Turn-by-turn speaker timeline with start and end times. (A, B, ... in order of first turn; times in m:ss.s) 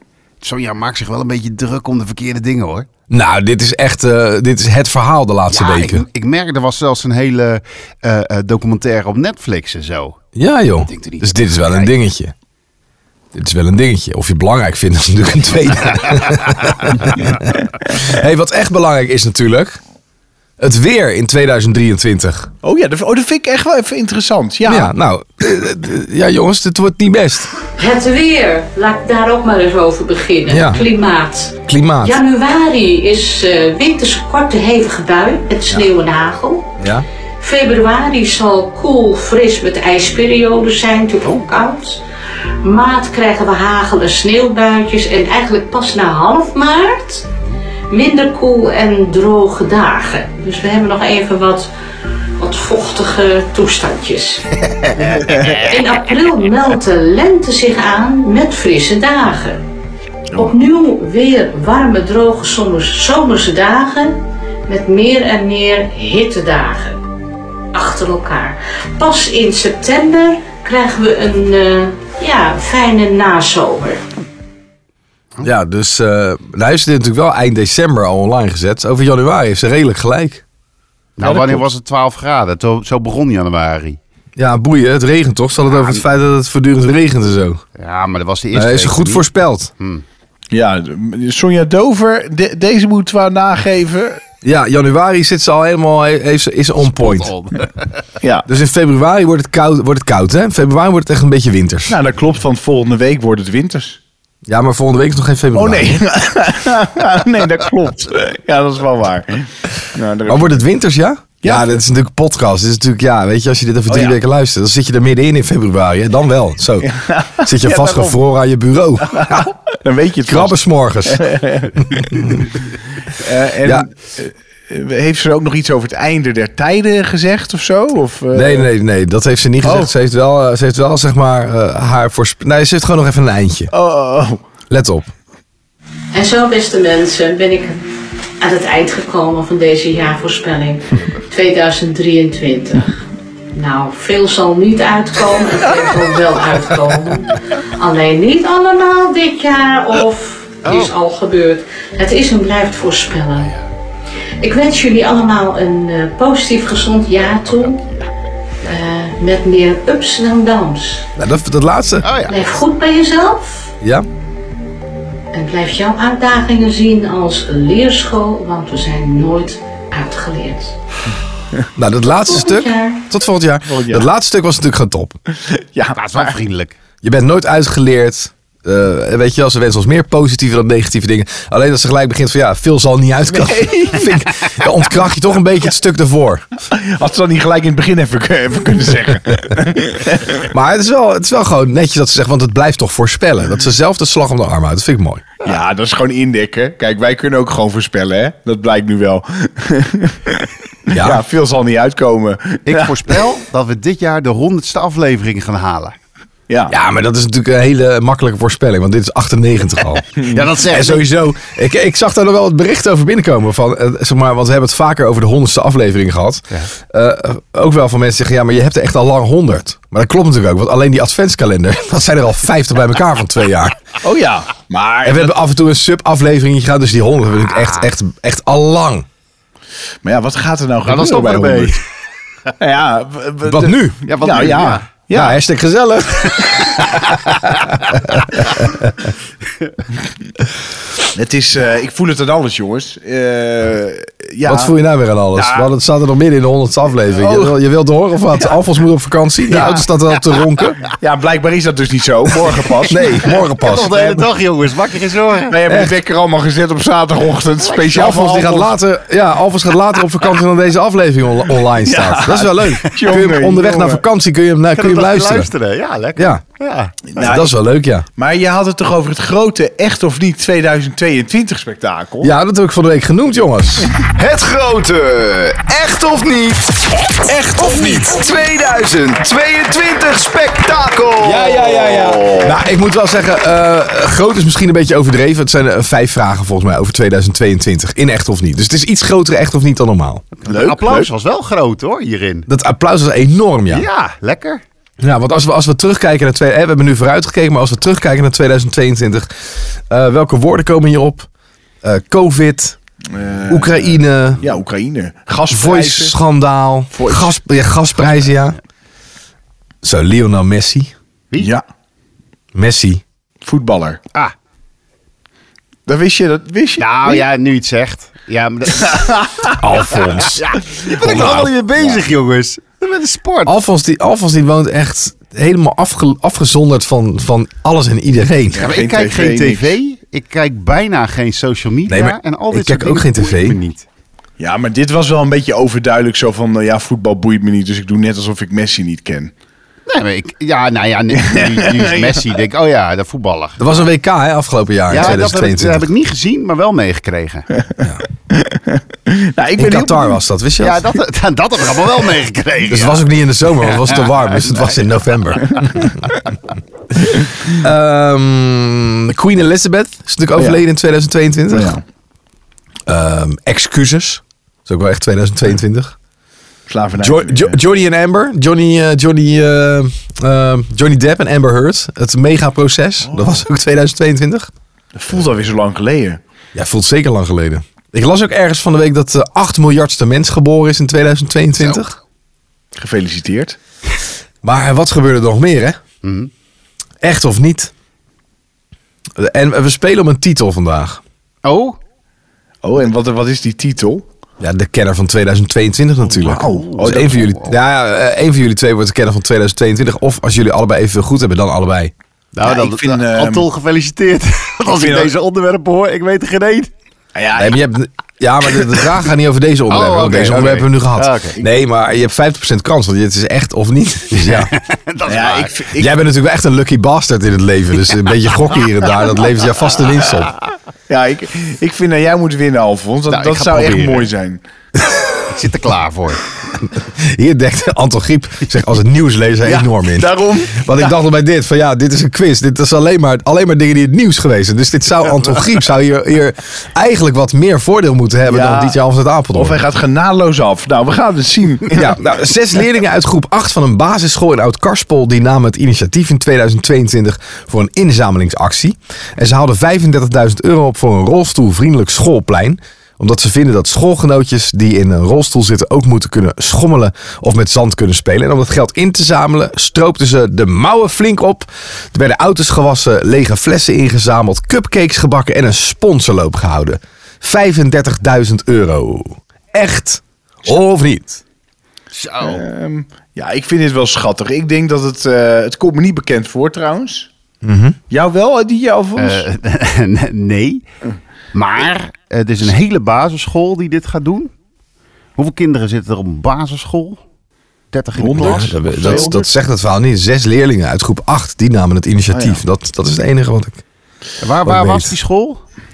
0:00.4-0:02.9 A
0:03.1-0:06.0 B
0:05.5-0:10.2 A
0:10.3-0:12.3 B
0:10.8-0:11.9 A
0:13.3-0:19.8 B
0:16.0-0:16.7 A
0:20.6-0:22.5 B
0:22.6-0:24.9 C
0:24.6-0:27.6 B
0:27.8-0:36.7 D
0:30.5-0:30.8 B
0:31.7-0:32.2 B
0:36.8-0:37.0 B
0:37.4-0:42.0 D
0:42.6-0:47.3 D
0:47.9-0:51.7 D
0:52.4-0:54.5 D
0:54.6-0:55.7 A
0:55.2-0:55.6 C
0:55.6-0:59.6 D
1:00.4-1:07.0 D
1:07.7-1:14.0 D
1:15.4-1:20.4 B
1:21.2-1:24.0 A
1:21.2-1:21.6 B
1:24.4-1:27.6 B
1:25.6-1:26.0 A
1:27.7-1:29.3 A
1:28.5-1:29.7 B
1:29.8-1:30.0 A
1:30.5-1:34.2 C
1:34.4-1:37.3 B
1:36.8-1:37.9 A
1:38.2-1:38.4 C
1:38.5-1:42.0 B
1:41.9-1:44.0 C
1:44.5-1:46.0 B
1:45.5-1:50.6 C
1:50.3-1:56.9 B
1:51.4-1:51.8 C
1:53.9-1:54.2 C
1:56.8-1:58.2 C
1:57.4-1:59.5 B
1:59.1-2:02.4 C
2:00.2-2:01.3 B
2:01.8-2:02.5 B
2:03.1-2:08.7 C
2:08.3-2:13.7 B
2:09.6-2:09.9 C
2:13.7-2:14.4 C
2:14.7-2:15.1 B
2:16.1-2:17.8 D
2:18.4-2:33.6 D
2:30.6-2:30.9 A
2:34.4-2:37.8 D
2:37.4-2:38.8 A
2:38.6-2:41.1 D
2:41.2-2:42.1 B
2:42.0-2:42.4 A
2:42.3-2:43.7 D
2:45.3-2:50.8 D
2:51.8-2:55.2 B
2:52.3-2:53.0 D
2:53.7-2:54.1 C
2:55.6-2:56.3 C
2:55.9-2:56.8 A
2:57.0-3:06.4 B
3:03.3-3:04.7 C
3:06.7-3:10.4 C
3:10.4-3:15.4 B
3:15.4-3:23.2 C
3:20.9-3:21.2 B
3:22.6-3:26.0 A
3:26.5-3:26.8 C
3:26.7-3:30.1 B
3:30.2-3:31.1 A
3:30.7-3:43.8 B
3:44.0-3:45.4 C
3:45.0-3:49.0 B
3:50.0-3:51.8 C
3:50.8-3:51.8 A
3:52.6-3:55.4 C
3:53.4-3:54.0 B
3:54.0-3:54.9 A
3:55.1-3:59.0 B
3:56.8-3:57.2 A
4:01.1-4:04.7 C
4:04.4-4:10.8 B
4:05.3-4:05.7 C
4:07.2-4:07.5 C
4:09.5-4:09.8 C
4:10.9-4:14.2 C
4:12.9-4:14.0 B
4:13.6-4:15.6 A
4:15.5-4:18.8 C
4:15.7-4:15.9 B
4:17.6-4:18.0 A
4:17.9-4:25.5 B
4:21.8-4:24.0 C
4:24.7-4:26.9 A
4:26.2-4:26.4 B
4:27.1-4:27.6 C
4:27.2-4:28.1 B
4:28.2-4:32.3 C
4:32.2-4:33.9 B
4:34.1-4:42.5 E
4:37.2-4:38.3 B
4:41.2-4:50.2 B
4:50.4-4:52.5 A
4:50.5-4:51.1 C
4:52.5-4:53.8 B
4:53.7-4:54.6 A
4:55.0-4:59.3 B
4:59.9-5:01.3 B
5:01.8-5:02.8 B
5:03.1-5:06.1 C
5:03.5-5:04.4 B
5:05.5-5:08.6 B
5:06.9-5:07.3 C
5:09.8-5:10.9 B
5:11.4-5:11.6 C
5:12.5-5:13.0 B
5:13.4-5:14.0 C
5:15.9-5:17.2 C
5:16.8-5:19.1 A
5:18.8-5:19.6 C
5:19.6-5:21.5 B
5:19.9-5:23.6 A
5:23.4-5:28.7 B
5:28.5-5:29.8 C
5:28.5-5:33.8 A
5:31.9-5:33.6 B
5:34.4-5:39.3 C
5:39.9-5:43.9 A
5:41.1-5:42.4 C
5:43.6-5:45.9 B
5:44.9-5:47.5 A
5:48.3-5:50.2 C
5:49.6-5:50.9 B
5:50.6-5:55.8 A
5:52.7-5:56.0 B
5:57.5-6:01.8 B
6:00.4-6:00.6 C
6:01.5-6:01.8 C
6:02.9-6:05.9 B
6:06.7-6:07.6 C
6:07.0-6:14.5 B
6:13.0-6:13.4 C
6:14.9-6:16.2 C
6:16.5-6:22.0 B
6:22.7-6:23.6 C
6:24.4-6:25.8 B
6:26.0-6:26.3 A
6:27.0-6:27.7 B
6:29.2-6:31.0 B
6:31.4-6:31.8 A
6:32.6-6:34.0 C
6:34.4-6:41.9 B
6:36.0-6:37.3 C
6:36.4-6:37.6 A
6:42.3-6:46.7 A
6:42.4-6:43.4 C
6:44.7-6:45.1 C
6:47.1-6:47.6 C
6:47.3-6:54.5 B
6:49.7-6:51.4 A
6:54.1-6:55.6 A
6:55.1-6:55.9 C
6:55.8-7:00.4 B
7:00.9-7:04.4 C
7:03.1-7:04.1 A
7:05.3-7:06.2 A
7:06.6-7:19.6 B
7:09.4-7:10.9 C
7:18.3-7:18.8 C
7:19.3-7:22.0 C
7:21.7-7:51.2 B
7:51.9-7:52.4 A
7:52.2-7:57.1 C
7:57.4-7:57.8 B
7:57.9-7:59.2 C
7:59.0-8:00.6 A
8:01.3-8:04.3 A
8:05.2-8:07.0 A
8:07.7-8:09.2 A
8:08.0-8:09.2 C
8:08.1-8:13.6 B
8:12.1-8:12.4 C
8:14.2-8:15.4 A
8:14.4-8:14.9 B